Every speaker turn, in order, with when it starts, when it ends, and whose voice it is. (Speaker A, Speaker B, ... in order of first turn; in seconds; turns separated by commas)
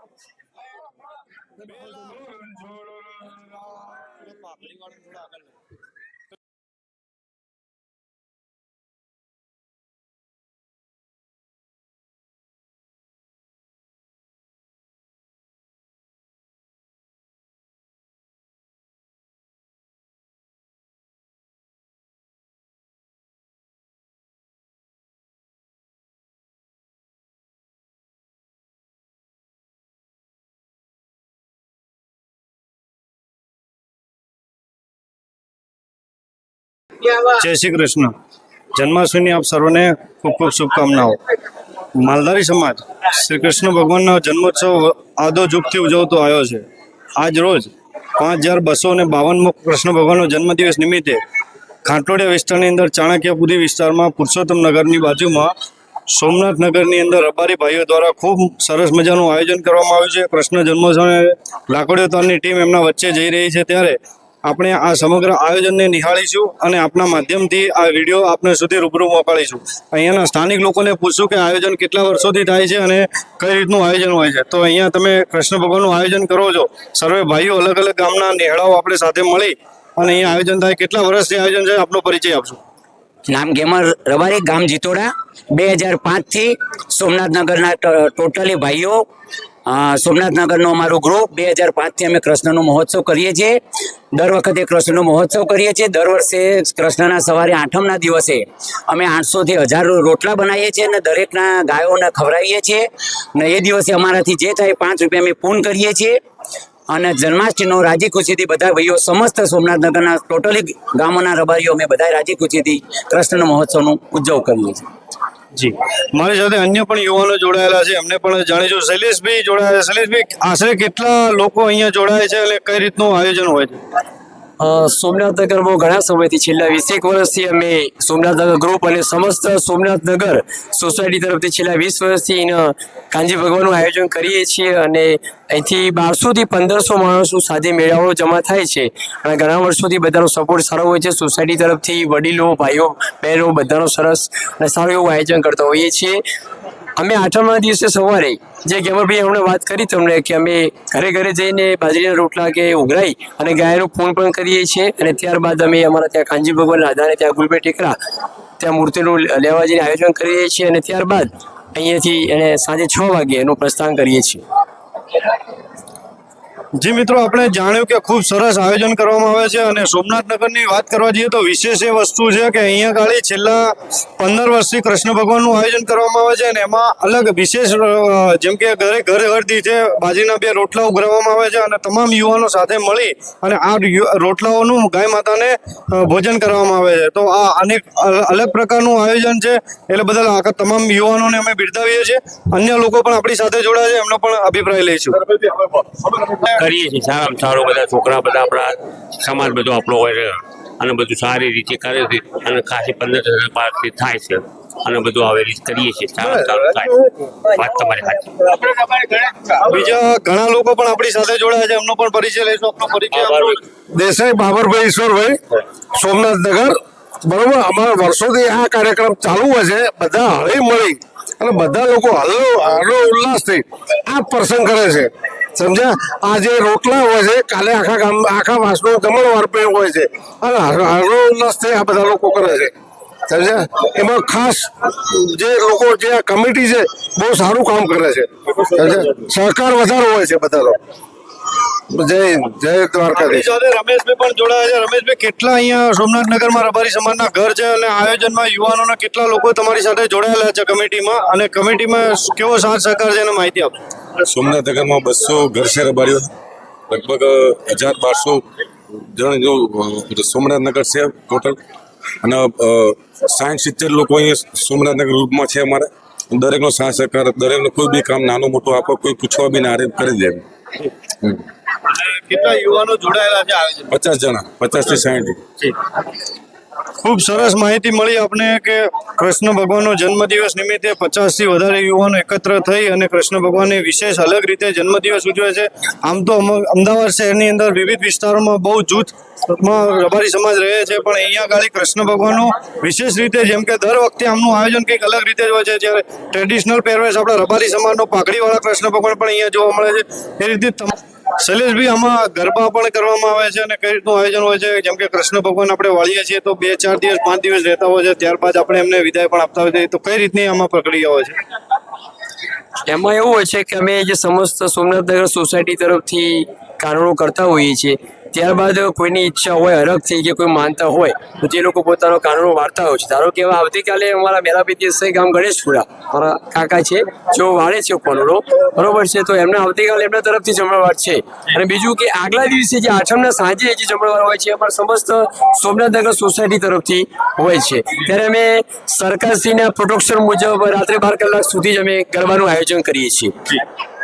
Speaker A: 1.6-5.5, Speaker A: 37.3-38.1, Speaker A: 38.8-41.1, Speaker A: 42.0-46.6, Speaker A: 47.2-51.2, Speaker A: 51.9-55.5, Speaker A: 56.1-82.6, Speaker B: 83.3-89.0, Speaker B: 89.7-93.6, Speaker B: 94.2-102.8, Speaker B: 103.4-106.2, Speaker B: 106.9-114.8, Speaker A: 115.5-123.8, Speaker C: 124.6-146.2, Speaker C: 147.0-157.9, Speaker C: 158.6-164.4, Speaker A: 166.8-195.2, Speaker D: 195.5-206.9, Speaker D: 207.4-209.3, Speaker A: 209.6-213.6, Speaker D: 213.1-213.6, Speaker E: 213.9-215.4, Speaker E: 215.9-232.7, Speaker E: 233.3-240.8, Speaker E: 241.9-243.4, Speaker A: 243.1-253.7, Speaker F: 254.2-256.3, Speaker F: 256.9-258.4, Speaker F: 259.1-261.6, Speaker F: 262.2-271.4, Speaker A: 271.9-273.9, Speaker F: 273.9-275.4, Speaker A: 277.0-311.3, Speaker C: 312.9-343.6